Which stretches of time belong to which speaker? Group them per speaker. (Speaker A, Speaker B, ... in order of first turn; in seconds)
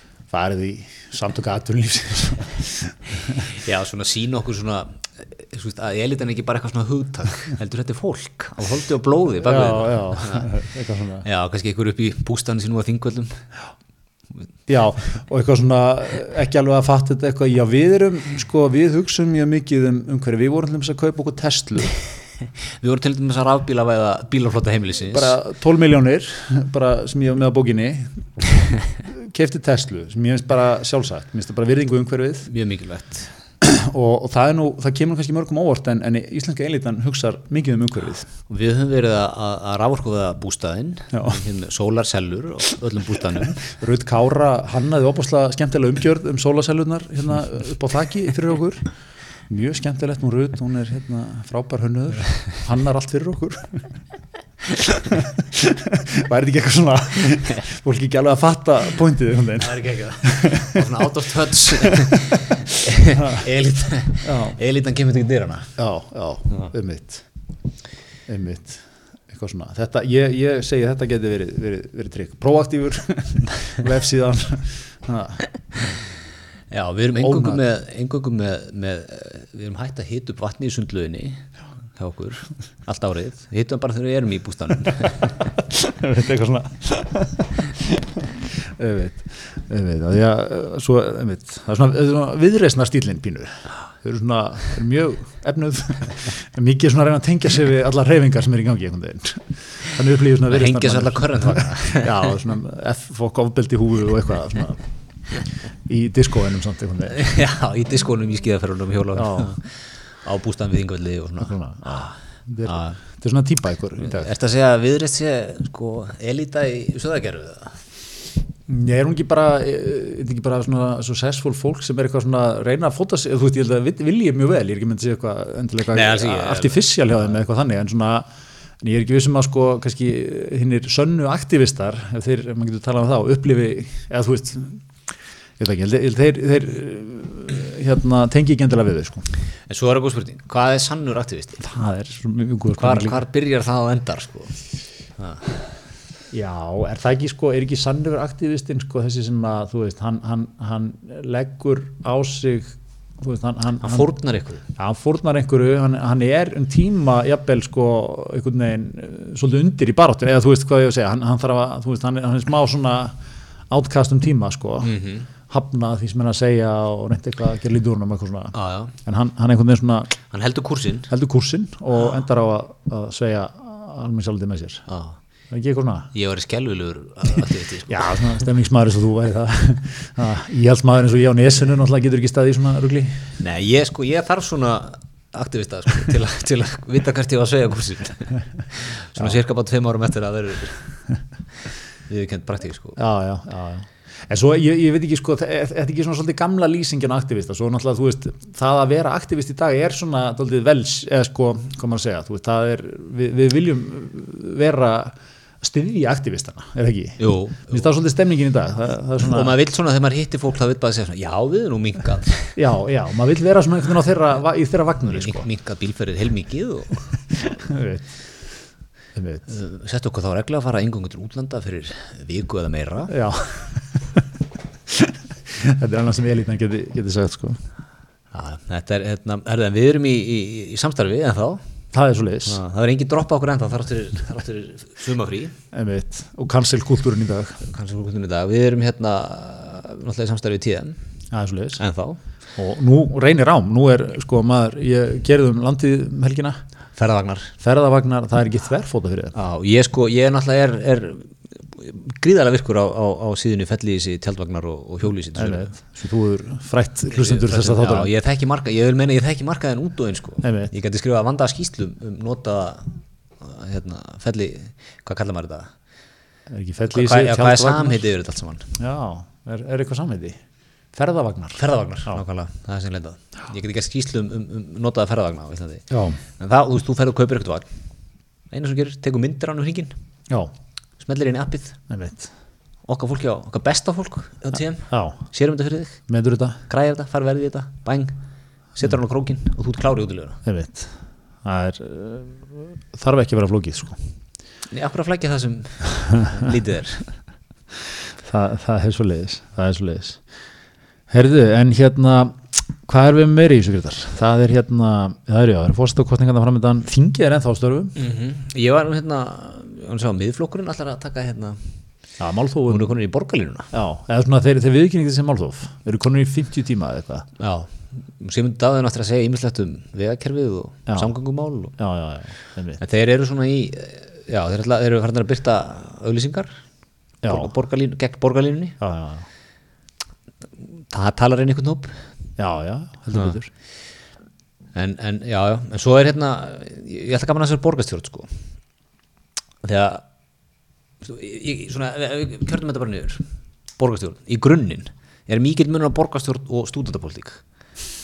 Speaker A: 0.3-3.5, 9.4-11.3, 14.7-21.9, 25.1-32.5, 33.6-38.3, 41.1-41.4, 43.6-48.9, 49.5-53.9, 54.7-60.8, 61.8-62.2, 63.2-63.5, 64.2-64.6, 65.8-67.2, 68.3-75.4, 77.2-77.6, 85.4-104.9, 105.8-107.2, 109.2-109.6, 111.4-114.3, 118.7-128.3, 128.8-134.9, 135.6-139.3, 141.6-143.2, 146.3-163.2, 163.7-164.9, 165.5-170.2, 171.1-174.9, 175.5-176.1, 177.9-183.3, 193.0-209.6, 212.6-215.4, 217.4-218.2, 219.2-219.4, 223.1-224.2, 224.9-227.6, 231.9-232.6, 235.7-237.6, 241.3-241.8, 242.6-246.6, 247.6-249.3, 255.4-258.1, 260.4-260.7, 266.5-268.1, 268.8-270.4, 270.9-272.2, 275.9-276.2, 281.9-282.3, 284.9-285.2, 286.1-286.6, 290.4-294.1, 298.2-300.2, 301.1-307.9, 312.2-312.9, 313.7-317.3, 320.9-321.1, 321.8-322.8, 327.2-327.5, 328.8-329.3, 332.4-333.5
Speaker B: 3.5-10.5, 11.2-13.5, 22.8-25.4, 32.5-33.3, 38.5-43.6, 59.6-65.8, 76.7-85.4, 100.5-102.3, 107.1-112.1, 112.7-113.0, 114.0-117.8, 125.9-126.8, 139.7-141.6, 142.8-144.6, 145.2-145.4, 153.8-154.6, 164.8-165.3, 168.5-168.9, 170.3-171.1, 174.9-175.2, 176.1-178.4, 183.4-191.1, 192.1-193.0, 207.2-207.9, 209.2-212.6, 215.1-217.6, 219.5-223.1, 228.3-231.6, 232.5-235.5, 237.6-241.0, 241.8-242.2, 247.0-247.5, 249.3-255.8, 257.1-265.7, 266.9-268.7, 271.6-277.7, 278.5-279.9, 281.0-281.8, 282.9-286.0, 286.7-288.1, 288.8-290.4, 294.7-297.1, 308.0-311.7, 312.7-313.7, 317.4-321.8, 322.8-326.6, 327.3-328.8, 330.9-332.1, 334.8-338.3, 339.6-340.0, 341.0-343.2, 343.8-347.4